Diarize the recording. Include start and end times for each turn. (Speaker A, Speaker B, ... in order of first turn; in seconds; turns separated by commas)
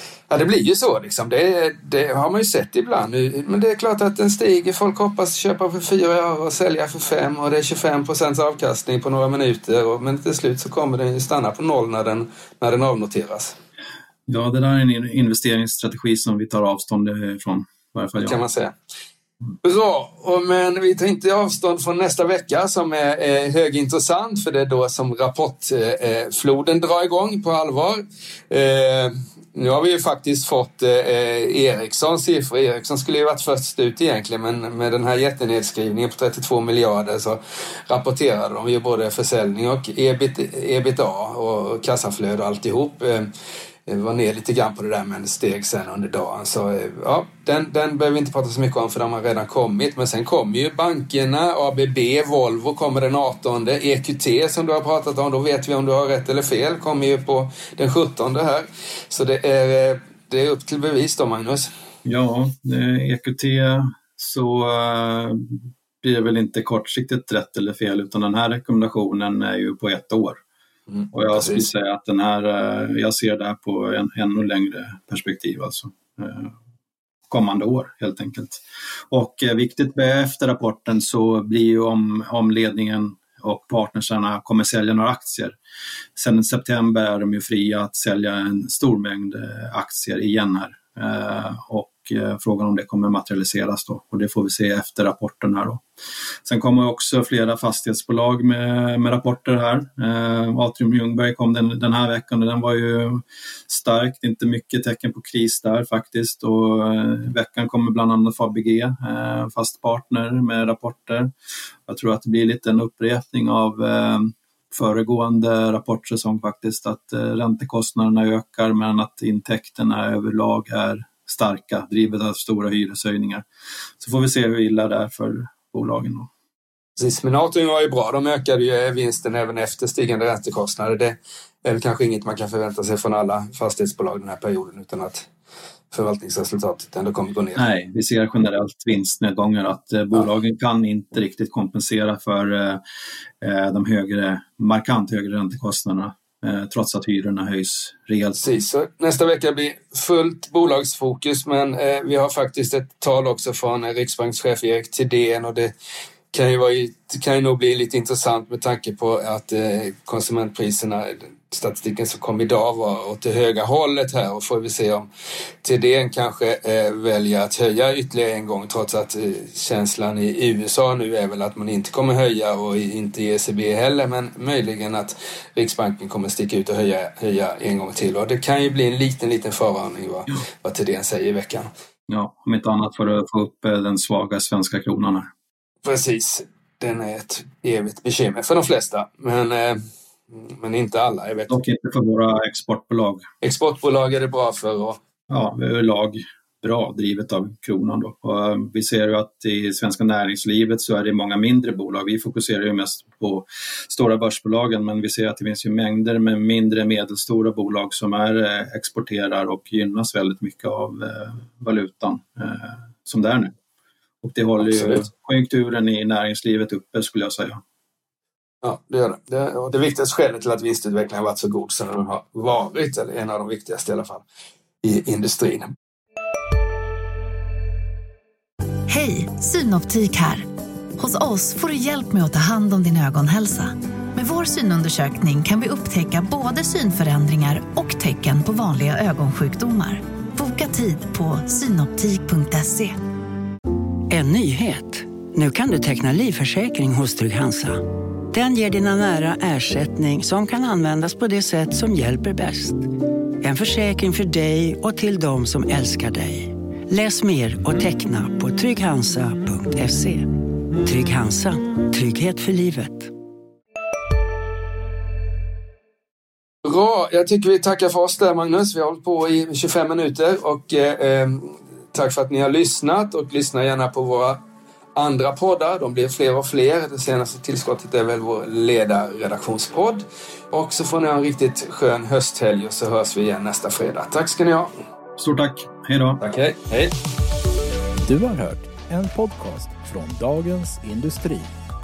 Speaker A: 0.3-13.6, Speaker B: 14.3-18.4, Speaker A: 18.2-18.7, Speaker A: 19.6-43.3, Speaker A: 43.9-61.7, Speaker B: 62.0-70.4, Speaker A: 70.9-71.7, Speaker B: 71.1-76.5, Speaker B: 77.3-85.6, Speaker B: 86.2-95.8, Speaker B: 96.5-111.3, Speaker B: 111.9-123.5, Speaker B: 124.0-126.3, Speaker A: 127.0-135.3, Speaker A: 135.9-137.7, Speaker B: 137.6-142.8, Speaker B: 143.4-148.5, Speaker A: 148.4-155.7, Speaker A: 156.3-165.1, Speaker A: 165.6-181.7, Speaker B: 182.1-185.3, Speaker A: 185.8-191.6, Speaker B: 191.5-193.2, Speaker A: 193.4-195.0, Speaker B: 195.3-213.5, Speaker B: 214.2-217.6, Speaker A: 214.6-215.1, Speaker A: 218.6-224.2, Speaker A: 224.8-225.7, Speaker C: 228.9-230.5, Speaker C: 231.0-243.0, Speaker D: 244.1-252.9, Speaker D: 253.4-263.1, Speaker A: 266.6-274.4, Speaker A: 274.9-284.7, Speaker B: 285.2-286.2, Speaker A: 286.2-286.9, Speaker E: 288.0-291.5